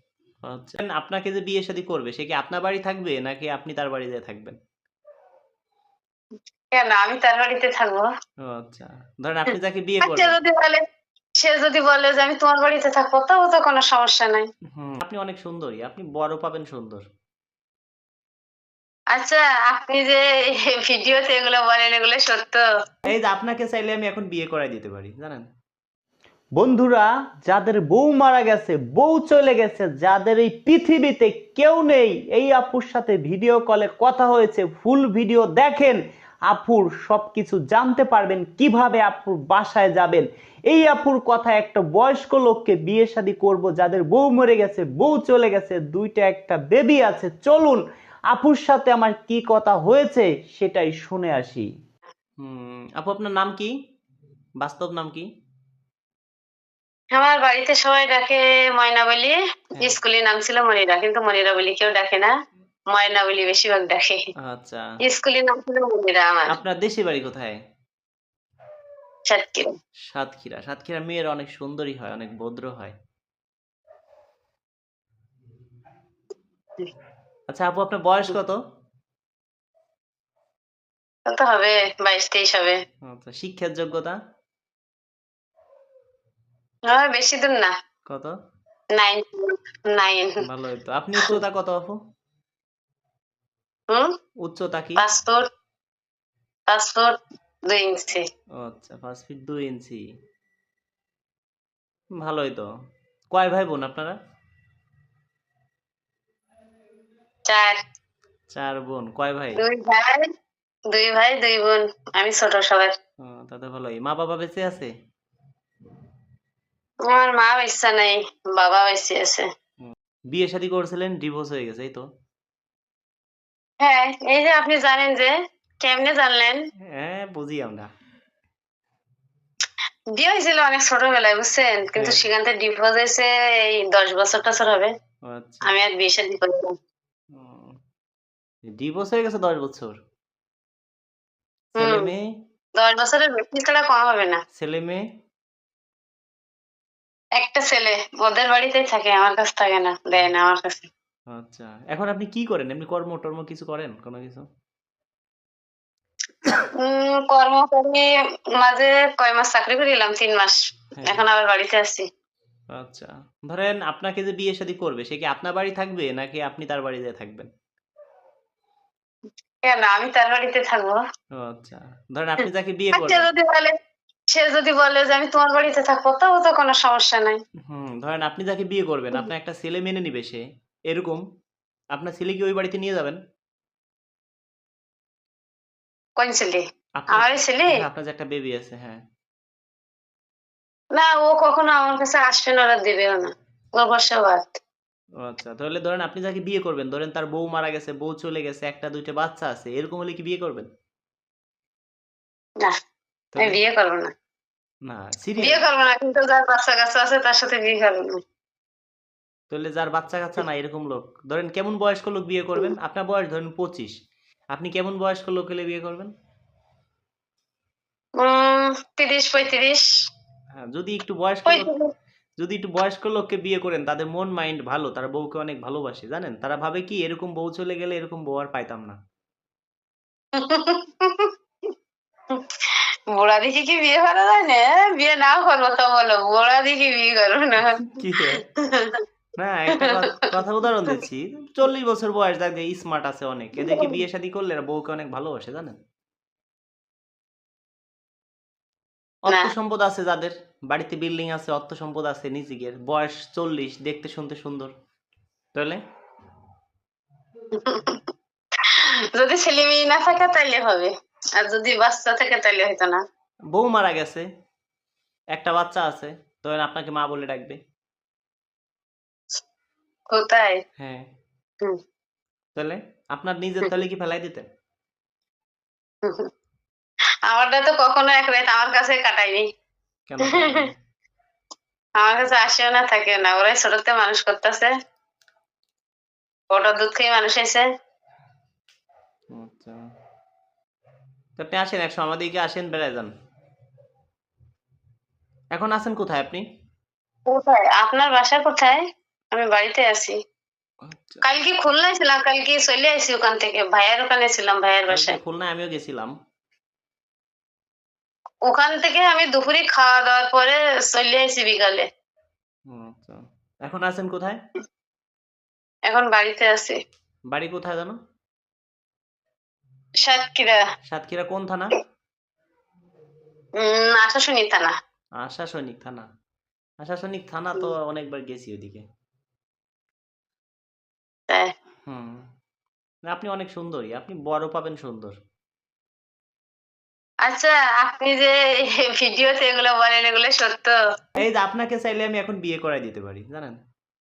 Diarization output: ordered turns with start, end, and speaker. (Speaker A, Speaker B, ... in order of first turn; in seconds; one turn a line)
Speaker A: 0.4-4.6
Speaker B: 6.7-8.1
Speaker A: 8.5-10.4
Speaker B: 10.0-10.8
Speaker B: 11.4-14.5
Speaker A: 14.7-17.0
Speaker B: 19.1-22.6
Speaker A: 23.1-25.4
Speaker C: 26.6-51.7
Speaker A: 52.4-53.7
Speaker A: 54.6-55.3
Speaker B: 57.1-62.3
Speaker B: 62.9-64.2
Speaker A: 64.4-64.9
Speaker B: 65.0-66.5
Speaker A: 66.5-67.6
Speaker B: 69.3-69.7
Speaker A: 70.1-72.9
Speaker A: 77.5-78.6
Speaker B: 81.3-82.8
Speaker A: 83.0-84.2
Speaker B: 86.9-87.7
Speaker A: 88.1-88.3
Speaker B: 88.9-90.4
Speaker A: 90.4-92.0
Speaker A: 94.4-95.0
Speaker B: 95.0-95.4
Speaker B: 96.7-97.1
Speaker B: 97.7-98.2
Speaker A: 98.6-100.0
Speaker A: 102.2-102.7
Speaker A: 103.3-104.2
Speaker B: 107.5-107.8
Speaker A: 108.5-109.6
Speaker B: 109.5-110.3
Speaker B: 110.9-112.9
Speaker A: 113.2-114.9
Speaker B: 117.1-119.5
Speaker A: 119.8-122.0
Speaker B: 123.8-126.6
Speaker A: 126.9-127.9
Speaker B: 130.2-134.9
Speaker A: 131.9-132.2
Speaker A: 135.3-135.8
Speaker B: 135.6-136.7
Speaker A: 137.3-137.8
Speaker A: 138.7-139.9
Speaker B: 141.8-142.1
Speaker A: 141.8-142.2
Speaker B: 142.8-144.4
Speaker A: 144.6-145.0
Speaker B: 147.4-150.9
Speaker A: 151.3-154.4
Speaker B: 156.7-162.1
Speaker A: 161.0-161.2
Speaker A: 162.8-167.5
Speaker B: 169.6-171.0
Speaker A: 171.4-173.3
Speaker B: 172.9-173.7
Speaker B: 174.3-177.4
Speaker A: 177.7-181.2
Speaker A: 181.9-183.2
Speaker B: 186.2-187.8
Speaker A: 187.0-189.0
Speaker B: 190.9-194.6
Speaker A: 195.2-200.7
Speaker A: 203.3-203.6
Speaker B: 203.4-204.1
Speaker A: 204.8-205.7
Speaker B: 205.4-208.2
Speaker A: 209.5-213.9
Speaker A: 214.5-216.1
Speaker B: 218.2-219.8
Speaker A: 220.7-221.7
Speaker B: 221.5-221.9
Speaker A: 222.4-229.0
Speaker B: 230.3-231.3
Speaker B: 232.3-239.0
Speaker A: 237.6-238.4
Speaker A: 239.4-245.8
Speaker B: 239.7-240.0
Speaker B: 243.6-243.9
Speaker A: 249.2-254.7
Speaker A: 255.5-255.8
Speaker B: 257.5-258.1
Speaker B: 258.6-263.0
Speaker A: 263.5-264.3
Speaker A: 265.3-267.6
Speaker B: 270.1-270.6
Speaker A: 270.8-271.0
Speaker A: 272.6-274.4
Speaker B: 276.0-276.3
Speaker B: 277.3-279.4
Speaker A: 280.1-280.7
Speaker B: 280.2-280.7
Speaker B: 282.0-284.7
Speaker B: 286.5-287.6
Speaker A: 289.3-289.8
Speaker A: 291.4-293.1
Speaker A: 295.5-296.4
Speaker B: 297.3-298.8
Speaker B: 299.3-300.2
Speaker A: 300.8-301.2
Speaker B: 301.2-305.2
Speaker A: 304.9-306.1
Speaker B: 308.5-311.9
Speaker A: 312.7-314.4
Speaker B: 315.9-316.8
Speaker A: 317.3-318.0
Speaker B: 320.0-320.6
Speaker A: 320.9-321.7
Speaker B: 323.6-324.7
Speaker A: 325.2-326.1
Speaker A: 326.8-328.8
Speaker A: 331.9-332.2
Speaker A: 333.1-335.1
Speaker B: 337.2-340.8
Speaker A: 341.2-343.6